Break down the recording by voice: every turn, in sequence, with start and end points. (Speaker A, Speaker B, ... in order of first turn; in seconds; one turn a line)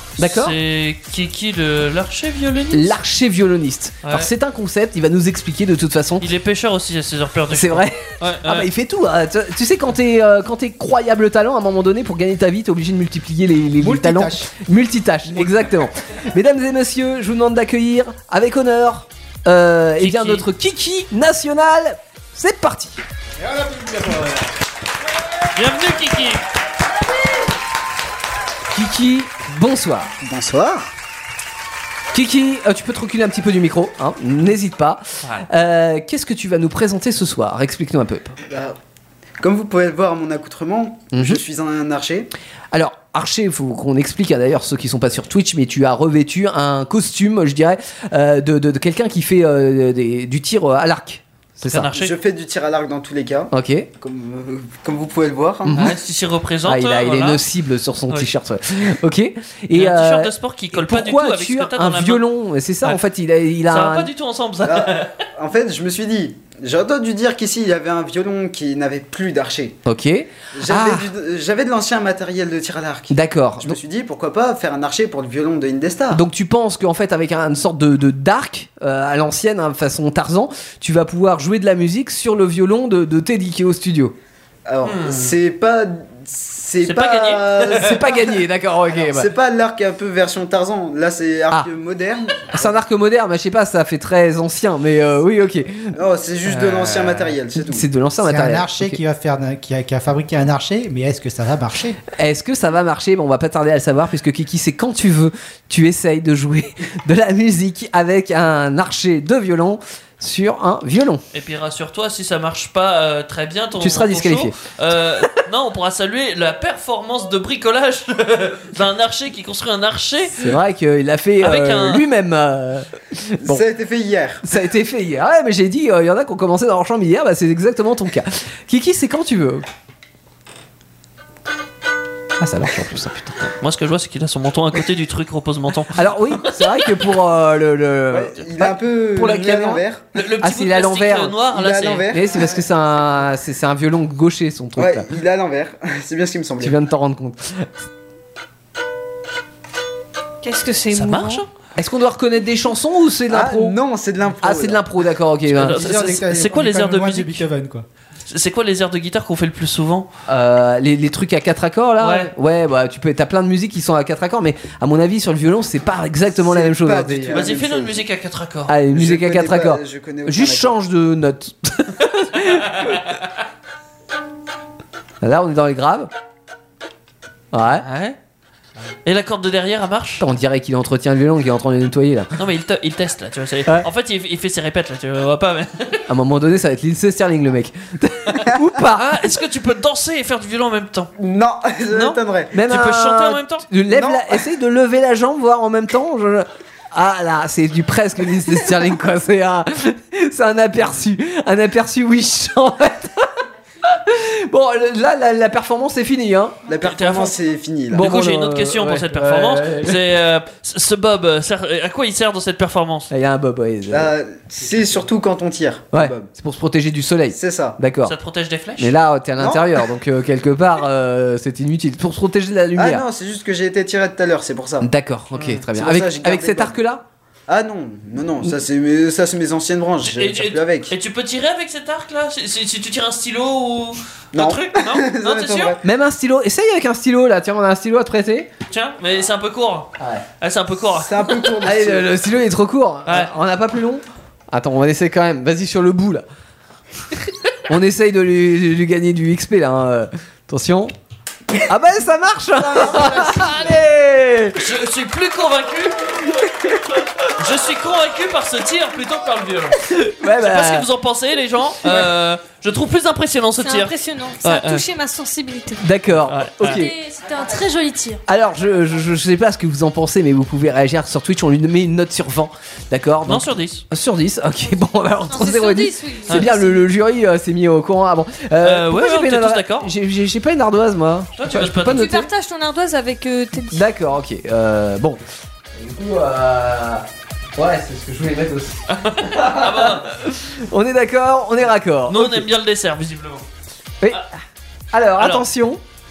Speaker A: 0.2-0.6
Speaker B: 0.2-3.0
Speaker A: 2.7-6.3
Speaker B: 6.2-8.7
Speaker A: 7.5-23.0
Speaker C: 13.8-14.4
Speaker B: 20.0-20.4
Speaker C: 23.4-24.5
Speaker B: 25.6-26.4
Speaker A: 28.7-30.1
Speaker D: 30.2-30.9
Speaker A: 32.1-38.4
Speaker D: 38.5-38.8
Speaker D: 39.4-42.3
Speaker A: 41.1-41.4
Speaker A: 42.7-51.9
Speaker B: 51.6-52.1
Speaker D: 51.9-56.0
Speaker A: 53.5-53.9
Speaker A: 55.7-55.9
Speaker B: 55.7-57.4
Speaker A: 56.7-64.1
Speaker B: 59.7-62.2
Speaker B: 63.7-65.1
Speaker D: 64.6-69.8
Speaker A: 69.8-71.1
Speaker D: 70.5-76.2
Speaker A: 73.1-73.8
Speaker A: 76.1-84.2
Speaker D: 84.7-88.4
Speaker B: 84.8-85.3
Speaker B: 86.8-88.0
Speaker A: 87.7-89.3
Speaker D: 88.9-92.8
Speaker A: 92.5-95.9
Speaker D: 96.0-97.9
Speaker B: 96.5-97.2
Speaker A: 97.6-99.0
Speaker C: 98.2-102.0
Speaker A: 102.1-111.2
Speaker B: 111.3-120.4
Speaker A: 113.8-114.5
Speaker A: 120.3-123.6
Speaker B: 121.4-122.0
Speaker D: 123.5-124.5
Speaker A: 124.4-129.7
Speaker A: 132.4-133.5
Speaker B: 133.6-136.0
Speaker A: 135.9-139.8
Speaker D: 138.1-140.0
Speaker B: 140.2-142.2
Speaker A: 140.4-141.4
Speaker D: 141.5-142.6
Speaker A: 142.1-145.1
Speaker D: 144.8-146.8
Speaker A: 146.6-147.7
Speaker E: 150.4-151.4
Speaker B: 150.9-151.5
Speaker A: 151.8-153.8
Speaker D: 153.3-154.8
Speaker A: 154.4-155.8
Speaker B: 155.5-157.4
Speaker C: 155.6-157.9
Speaker B: 158.3-160.1
Speaker A: 160.3-167.5
Speaker B: 162.0-162.3
Speaker D: 166.3-168.0
Speaker B: 167.3-168.7
Speaker A: 168.7-172.9
Speaker D: 168.9-170.7
Speaker A: 175.2-176.1
Speaker A: 177.5-177.9
Speaker B: 177.8-178.2
Speaker B: 179.1-180.2
Speaker A: 180.2-182.3
Speaker B: 182.4-186.0
Speaker A: 186.1-189.2
Speaker B: 188.9-191.1
Speaker D: 191.2-192.6
Speaker B: 191.9-193.7
Speaker A: 192.5-203.3
Speaker D: 193.9-194.5
Speaker A: 203.9-206.6
Speaker D: 206.7-208.1
Speaker B: 206.8-207.4
Speaker A: 207.9-210.0
Speaker B: 207.9-213.1
Speaker A: 213.1-214.1
Speaker D: 213.9-216.3
Speaker A: 215.9-218.2
Speaker D: 217.3-217.8
Speaker B: 218.0-218.9
Speaker A: 218.8-223.0
Speaker D: 219.4-219.7
Speaker D: 222.8-224.9
Speaker A: 224.8-227.0
Speaker B: 225.3-225.6
Speaker D: 225.7-226.8
Speaker D: 227.5-230.9
Speaker B: 230.0-235.8
Speaker D: 234.3-235.8
Speaker A: 235.8-238.5
Speaker B: 238.7-239.9
Speaker B: 240.4-241.5
Speaker D: 240.9-242.1
Speaker A: 241.6-246.2
Speaker B: 243.1-243.3
Speaker A: 247.7-250.9
Speaker A: 251.7-254.7
Speaker C: 252.6-253.7
Speaker B: 254.6-264.9
Speaker A: 259.9-260.9
Speaker E: 263.6-265.8
Speaker A: 265.8-267.0
Speaker B: 266.3-266.9
Speaker E: 266.7-268.2
Speaker A: 268.3-282.3
Speaker B: 273.3-273.8
Speaker E: 275.3-276.9
Speaker B: 276.3-276.5
Speaker B: 278.6-279.9
Speaker B: 281.4-282.2
Speaker E: 281.8-283.8
Speaker A: 283.7-285.2
Speaker A: 285.8-287.1
Speaker A: 287.6-292.5
Speaker B: 288.9-290.1
Speaker B: 292.1-293.4
Speaker A: 294.9-295.8
Speaker B: 295.2-295.4